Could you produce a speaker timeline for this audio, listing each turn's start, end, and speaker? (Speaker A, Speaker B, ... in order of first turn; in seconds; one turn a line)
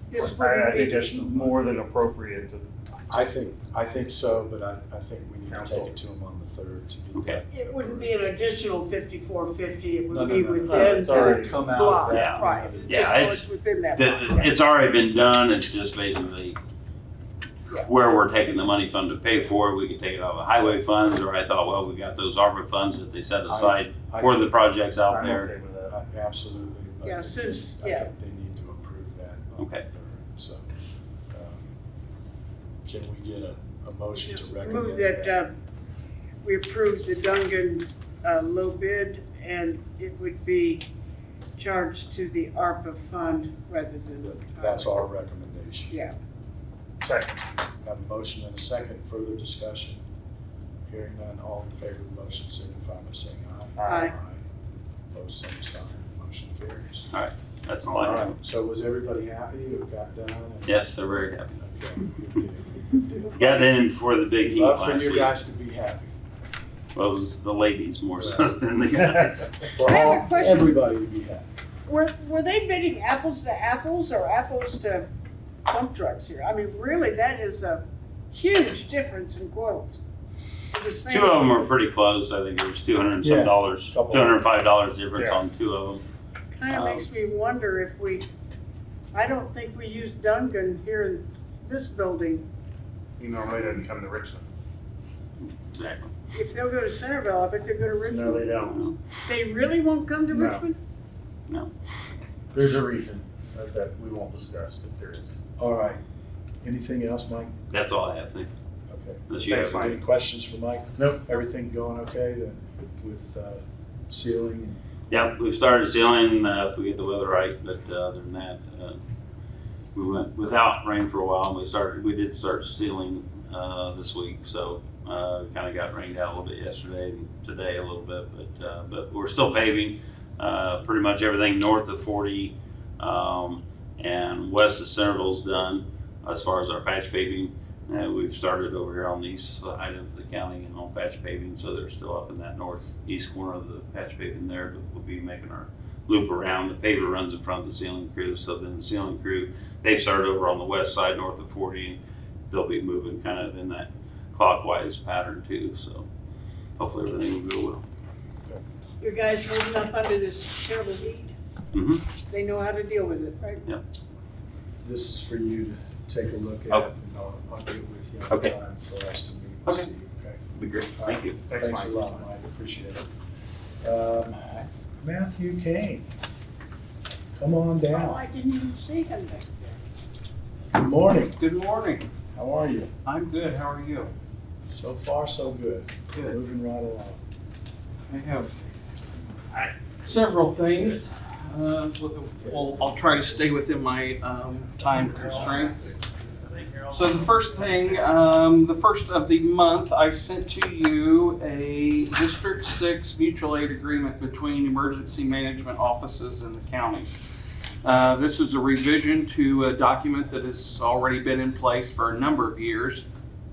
Speaker A: 0.1-1.2
Speaker B: 0.1-2.6
Speaker C: 0.7-1.6
Speaker C: 3.1-8.3
Speaker B: 5.5-5.9
Speaker D: 7.1-7.4
Speaker A: 7.5-14.6
Speaker C: 10.1-13.2
Speaker B: 10.6-12.1
Speaker D: 12.1-16.6
Speaker D: 17.8-25.5
Speaker C: 23.5-24.5
Speaker B: 25.1-25.9
Speaker C: 25.9-30.6
Speaker A: 27.0-28.1
Speaker D: 29.6-29.8
Speaker C: 31.3-31.7
Speaker C: 32.8-35.4
Speaker A: 34.3-35.5
Speaker A: 36.4-40.9
Speaker A: 41.6-45.0
Speaker C: 44.2-45.9
Speaker B: 47.0-47.3
Speaker C: 47.8-50.0
Speaker C: 50.9-54.4
Speaker B: 53.8-54.1
Speaker A: 53.8-54.1
Speaker C: 55.1-57.1
Speaker D: 57.1-58.4
Speaker C: 57.9-60.9
Speaker D: 60.6-61.6
Speaker C: 61.6-63.8
Speaker D: 63.4-65.3
Speaker C: 64.4-66.1
Speaker D: 66.9-69.7
Speaker C: 68.2-68.5
Speaker C: 69.7-71.5
Speaker A: 69.8-70.7
Speaker A: 71.8-75.1
Speaker A: 75.7-80.0
Speaker A: 80.7-81.6
Speaker D: 81.0-86.0
Speaker C: 83.2-84.4
Speaker B: 85.1-85.4
Speaker A: 86.5-88.3
Speaker D: 86.7-87.1
Speaker A: 89.1-92.5
Speaker B: 93.2-94.4
Speaker D: 95.4-96.1
Speaker A: 96.3-98.6
Speaker B: 98.1-98.8
Speaker D: 98.7-99.0
Speaker A: 99.2-100.8
Speaker B: 100.3-100.6
Speaker B: 102.5-105.4
Speaker C: 105.6-106.0
Speaker C: 106.6-107.5
Speaker D: 107.7-108.5
Speaker C: 108.9-114.8
Speaker D: 109.3-109.9
Speaker B: 109.5-110.0
Speaker D: 115.1-119.0
Speaker D: 119.9-152.0
Speaker D: 152.5-156.1
Speaker D: 156.8-157.8
Speaker A: 159.0-161.3
Speaker D: 161.7-162.1
Speaker A: 162.3-163.6
Speaker C: 164.8-170.4
Speaker D: 170.5-171.4
Speaker C: 171.0-173.1
Speaker B: 171.5-172.2
Speaker C: 173.8-176.1
Speaker C: 177.3-178.2
Speaker A: 177.9-179.8
Speaker C: 180.7-181.4
Speaker E: 181.4-182.1
Speaker C: 182.3-182.9
Speaker E: 183.0-184.1
Speaker C: 184.7-187.2
Speaker E: 188.1-188.5
Speaker E: 190.0-195.9
Speaker E: 196.9-207.2
Speaker E: 207.8-213.0